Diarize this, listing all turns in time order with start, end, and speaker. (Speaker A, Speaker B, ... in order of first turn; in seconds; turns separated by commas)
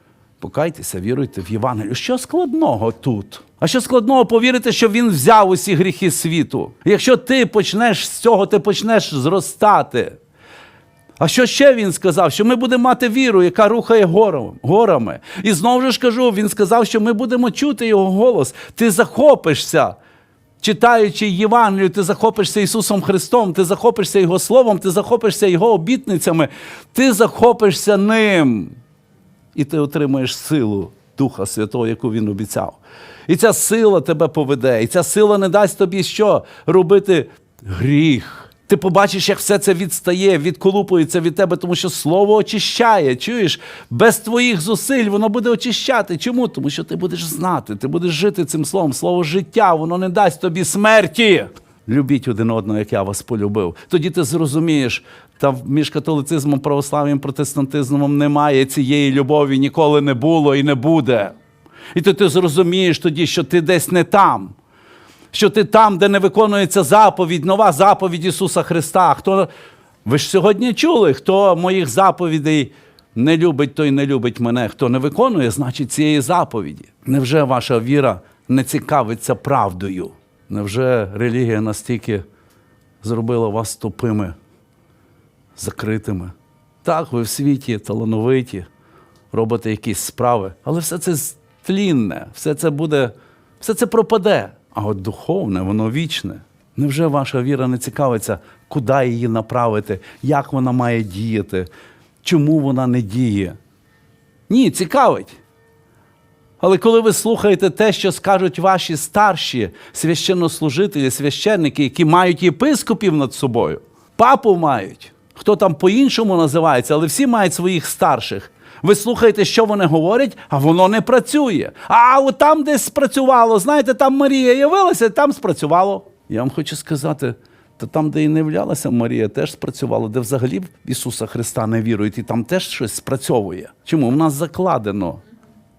Speaker A: 0.4-10.2, Speaker A: 11.2-20.0, Speaker A: 20.6-28.8, Speaker A: 29.5-61.4, Speaker A: 61.9-64.5, Speaker A: 65.3-69.5, Speaker A: 70.0-82.2, Speaker A: 83.0-84.3, Speaker A: 85.6-88.7, Speaker A: 89.3-101.7, Speaker A: 102.2-103.6, Speaker A: 104.5-105.4, Speaker A: 106.6-135.2